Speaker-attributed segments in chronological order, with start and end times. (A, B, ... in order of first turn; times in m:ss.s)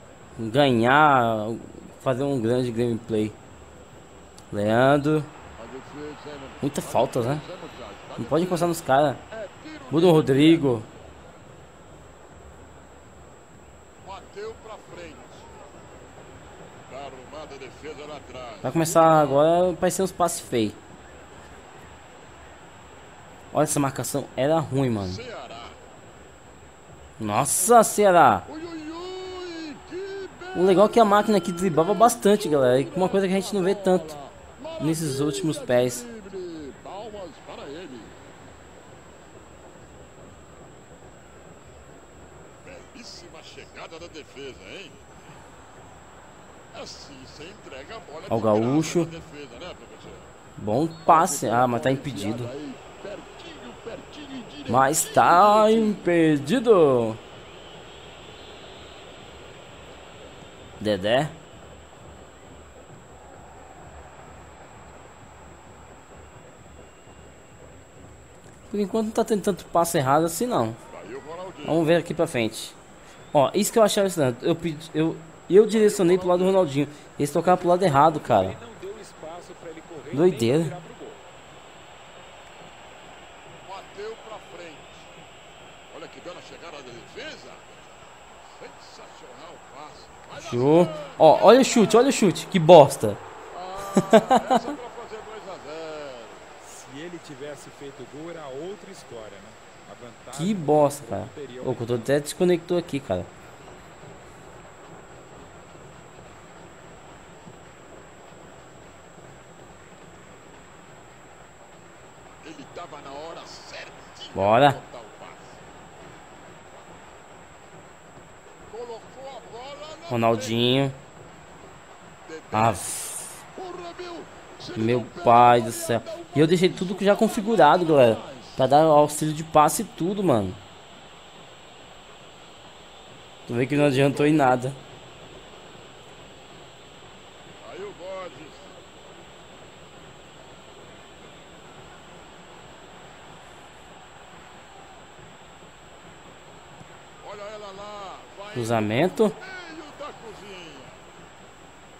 0:00.4-0:03.4 A
0:04.5-0:05.3 A
0:05.6-0:08.8 B
0:06.6-0:07.4 A
0:08.2-0:09.2 A
0:09.3-0:10.7 B
0:09.9-0:10.9 A
0:14.0-0:15.5 B
0:16.9-0:19.5 B
0:18.6-0:20.8 A
0:23.5-0:25.2 A
0:25.0-0:25.8 B
0:27.2-0:28.5 A
0:28.5-0:38.1 B
0:30.5-0:34.2 A
0:34.8-0:36.1 A
0:42.6-0:45.0 B
0:46.7-0:50.3 B
0:48.3-0:49.1 A
0:50.6-0:52.5 A
0:51.0-0:56.1 B
0:54.7-0:57.2 A
1:00.8-1:01.4 A
1:08.7-1:10.8 A
1:10.9-1:11.8 B
1:11.6-1:12.8 A
1:13.3-1:18.6 A
1:15.7-1:16.7 B
1:17.4-1:21.2 C
1:20.1-1:20.8 A
1:23.6-1:25.1 B
1:25.9-1:27.8 B
1:28.5-1:32.1 B
1:30.4-1:33.2 A
1:33.5-1:36.5 B
1:34.0-1:34.7 A
1:36.6-1:42.1 C
1:40.3-1:43.3 A
1:52.4-1:55.6 B
1:54.4-1:54.8 A
1:58.7-2:00.6 B
2:00.1-2:01.0 A
2:02.2-2:03.0 B
2:02.5-2:03.4 A
2:03.5-2:08.7 B
2:04.8-2:10.6 A
2:13.5-2:14.8 A
2:13.7-2:14.6 B
2:17.6-2:18.8 B
2:27.2-2:31.0 B
2:28.6-2:29.4 A